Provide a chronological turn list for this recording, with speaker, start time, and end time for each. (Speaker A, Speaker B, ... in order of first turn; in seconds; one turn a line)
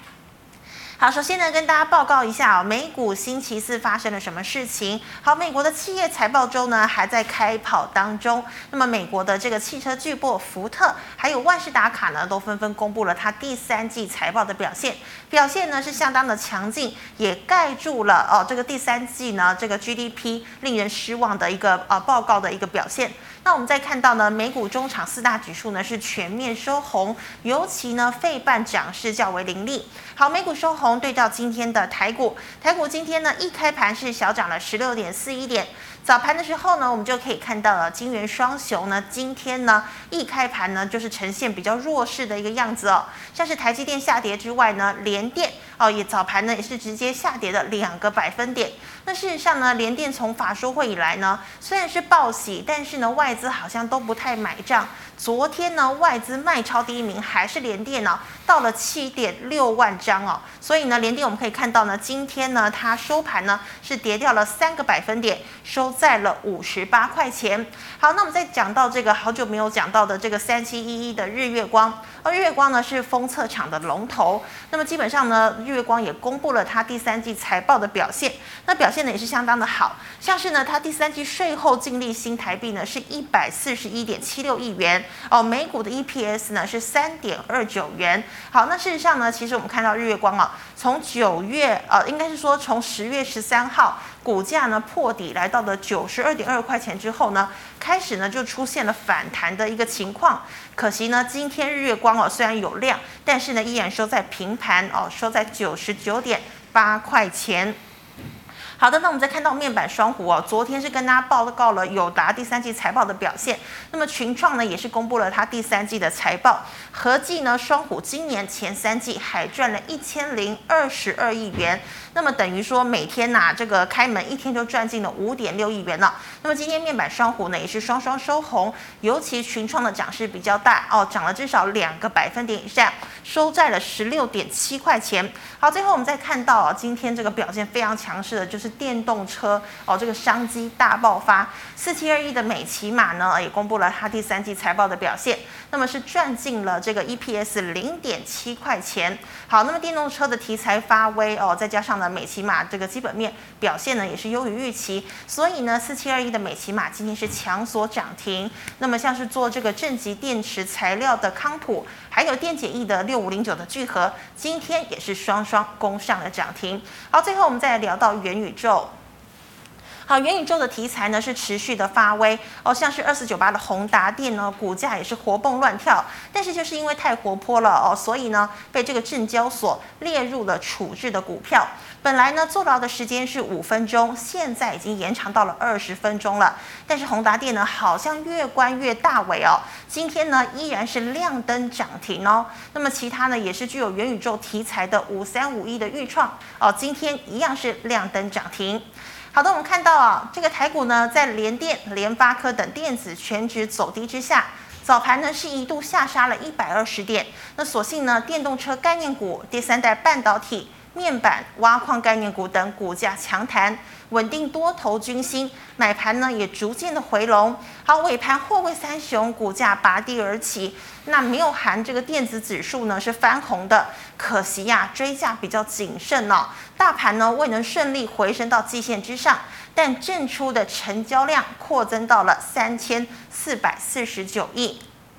Speaker A: 1.0-107.8
Speaker A: 108.8-168.9
Speaker A: 170.1-234.8